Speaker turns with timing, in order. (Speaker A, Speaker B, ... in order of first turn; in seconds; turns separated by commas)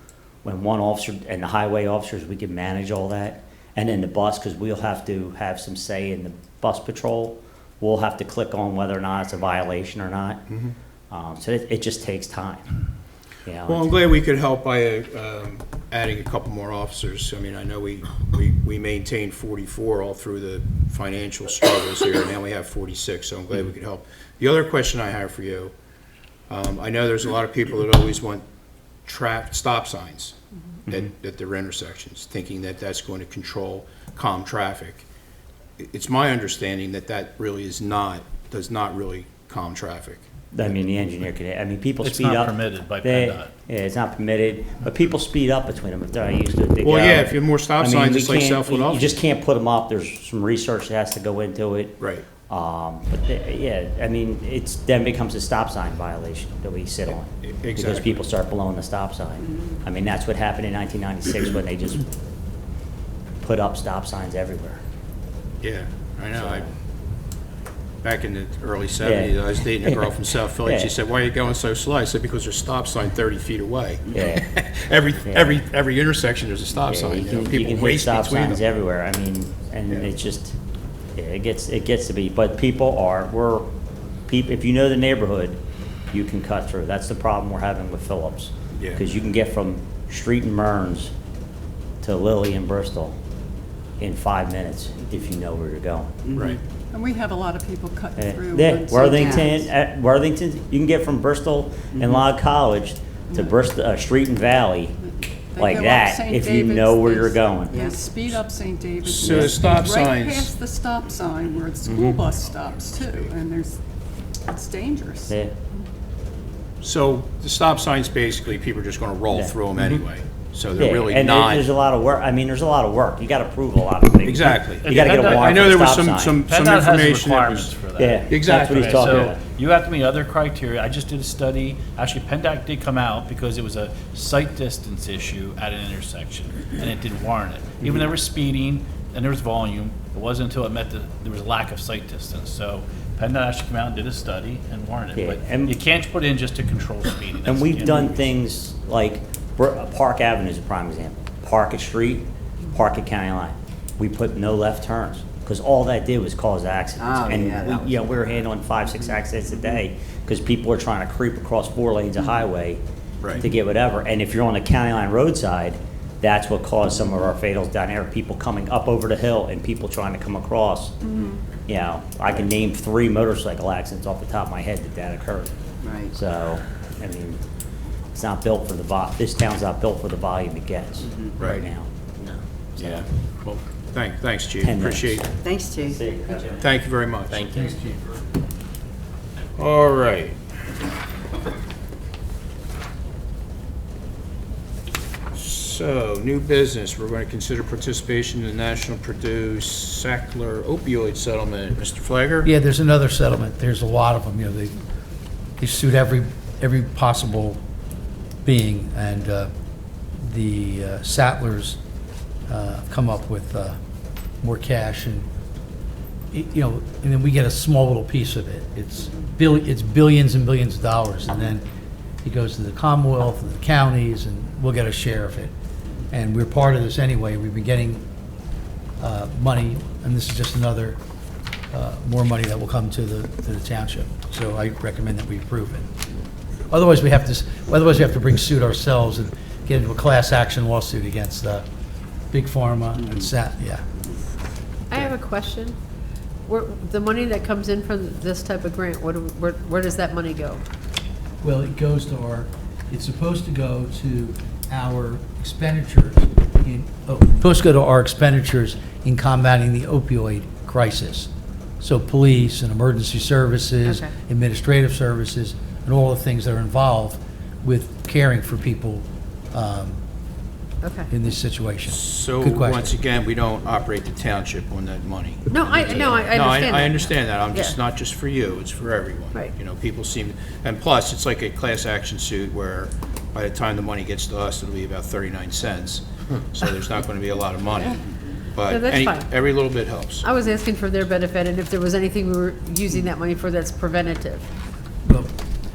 Speaker A: 0.4-10.4, Speaker A: 11.1-12.7, Speaker A: 13.4-13.9, Speaker B: 13.7-25.7, Speaker B: 26.5-28.4, Speaker B: 29.1-30.3, Speaker B: 30.9-35.0, Speaker B: 35.8-40.2, Speaker A: 40.5-62.1, Speaker C: 42.0-43.5, Speaker B: 46.8-49.2, Speaker B: 52.0-52.2, Speaker B: 57.4-58.2, Speaker A: 63.4-64.8, Speaker B: 65.6-66.6, Speaker A: 66.3-66.7, Speaker B: 68.0-78.6, Speaker A: 69.0-71.0, Speaker A: 74.1-74.5, Speaker A: 75.2-75.6, Speaker A: 76.8-80.6, Speaker A: 81.1-83.7, Speaker A: 84.3-85.6, Speaker A: 86.1-91.1, Speaker B: 88.8-89.0, Speaker A: 92.0-93.2, Speaker A: 94.0-96.2, Speaker D: 96.2-96.5, Speaker B: 96.3-96.6, Speaker E: 96.9-99.6, Speaker A: 98.2-105.0, Speaker D: 99.1-99.5, Speaker D: 101.9-102.2, Speaker E: 105.0-113.8, Speaker A: 105.5-107.8, Speaker D: 107.7-108.0, Speaker B: 109.0-110.5, Speaker A: 109.2-109.5, Speaker B: 111.8-113.3, Speaker E: 114.4-115.3, Speaker A: 115.3-115.5, Speaker B: 116.8-121.7, Speaker A: 119.3-120.0, Speaker A: 120.8-126.4, Speaker B: 124.2-127.7, Speaker C: 124.8-125.6, Speaker C: 126.5-148.2, Speaker A: 128.0-129.4, Speaker B: 128.3-129.3, Speaker A: 145.1-145.8, Speaker A: 147.4-162.8, Speaker D: 157.0-158.1, Speaker A: 163.3-170.9, Speaker E: 171.1-171.4, Speaker A: 171.7-175.5, Speaker D: 175.8-176.1, Speaker A: 176.1-177.4, Speaker A: 178.1-183.0, Speaker B: 182.8-185.3, Speaker A: 184.6-186.7, Speaker D: 185.4-186.0, Speaker B: 186.6-187.6, Speaker A: 187.3-188.0, Speaker B: 189.6-190.4, Speaker B: 195.3-202.5, Speaker F: 202.4-204.8, Speaker F: 205.6-207.6, Speaker F: 208.4-209.5, Speaker F: 210.2-211.8, Speaker F: 212.5-213.8, Speaker F: 214.4-215.2, Speaker F: 216.3-221.6, Speaker F: 222.2-225.5, Speaker F: 226.1-228.0, Speaker F: 229.0-231.0, Speaker F: 231.7-235.8, Speaker F: 236.7-241.6, Speaker F: 242.3-243.8, Speaker G: 244.9-245.8, Speaker G: 246.4-250.6, Speaker F: 251.4-261.3, Speaker F: 261.8-270.0, Speaker G: 263.8-264.1, Speaker G: 270.8-271.1, Speaker F: 271.1-272.9, Speaker B: 271.9-290.2, Speaker G: 275.5-277.8, Speaker G: 288.6-289.3, Speaker G: 290.2-294.5, Speaker F: 295.0-295.3